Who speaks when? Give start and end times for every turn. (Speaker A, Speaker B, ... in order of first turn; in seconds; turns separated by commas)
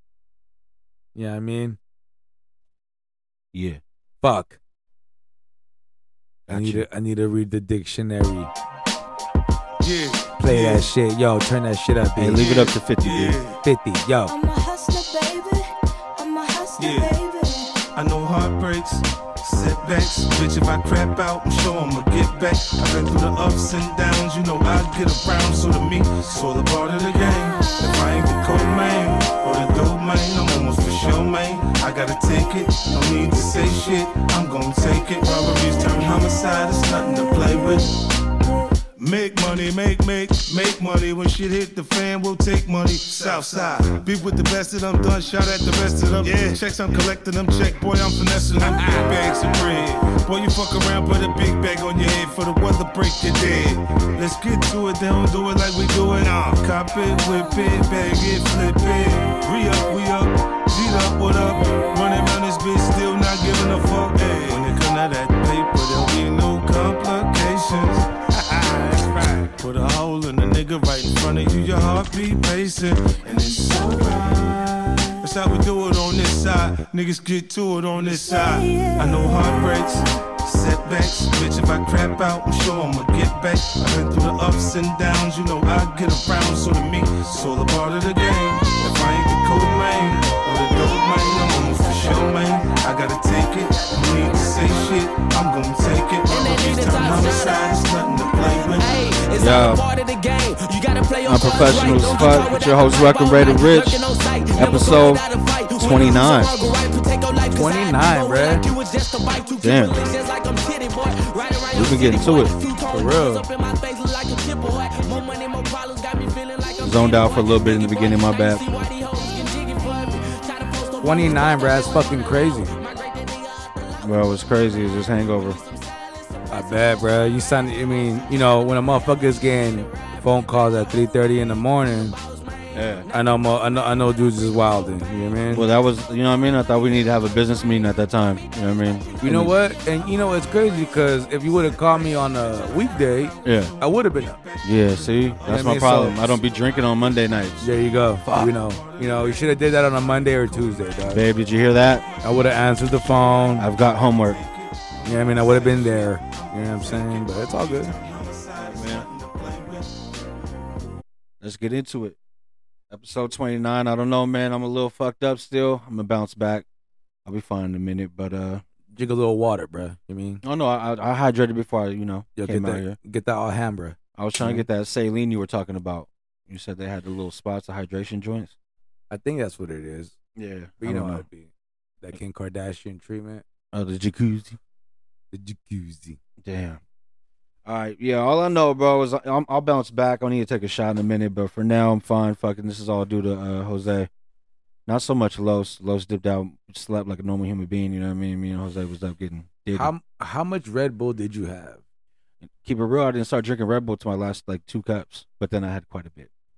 Speaker A: 1.1-1.8, Speaker B: 3.5-3.8, Speaker A: 4.2-4.6, Speaker B: 6.5-6.8, Speaker A: 6.5-8.5, Speaker C: 9.8-10.9, Speaker A: 10.4-12.4, Speaker B: 12.2-13.4, Speaker C: 12.3-13.6, Speaker A: 13.6-14.3, Speaker D: 14.3-17.8, Speaker C: 16.8-17.1, Speaker C: 17.9-37.9, Speaker D: 27.7-28.0, Speaker D: 35.3-37.8, Speaker C: 39.0-99.2, Speaker D: 48.6-49.8, Speaker D: 57.1-60.0, Speaker D: 61.5-62.4, Speaker D: 73.3-74.8, Speaker D: 78.0-80.1, Speaker E: 91.5-92.9, Speaker E: 93.6-94.8, Speaker E: 96.3-135.2, Speaker B: 99.3-99.8, Speaker B: 101.2-104.0, Speaker B: 104.5-105.2, Speaker B: 105.7-106.5, Speaker A: 107.5-108.6, Speaker B: 109.6-110.0, Speaker B: 111.7-112.5, Speaker A: 112.9-113.5, Speaker B: 116.8-118.8, Speaker A: 121.0-122.8, Speaker B: 124.0-125.6, Speaker A: 126.5-132.2, Speaker B: 132.7-133.1, Speaker A: 133.1-135.7, Speaker B: 135.5-139.5, Speaker E: 137.1-142.9, Speaker A: 139.2-144.4, Speaker C: 141.6-147.1, Speaker B: 143.4-143.7, Speaker B: 144.6-147.6, Speaker A: 145.5-146.2, Speaker A: 147.6-151.2, Speaker B: 148.2-148.5, Speaker C: 148.3-151.1, Speaker B: 151.1-152.0, Speaker C: 151.8-160.0, Speaker A: 152.2-153.7, Speaker B: 153.6-154.4, Speaker A: 155.0-157.9, Speaker B: 158.6-159.1, Speaker B: 161.4-162.2, Speaker B: 162.9-166.6, Speaker B: 167.2-168.6, Speaker A: 168.9-170.4, Speaker B: 170.4-173.0, Speaker A: 172.4-174.7, Speaker B: 174.2-178.5, Speaker A: 179.1-180.1, Speaker B: 180.3-181.2, Speaker A: 180.8-181.5, Speaker A: 182.0-183.4, Speaker B: 183.7-184.6, Speaker A: 185.3-186.2, Speaker B: 186.4-186.8, Speaker B: 187.6-194.1, Speaker B: 194.9-199.9, Speaker A: 199.7-201.8, Speaker B: 202.5-206.3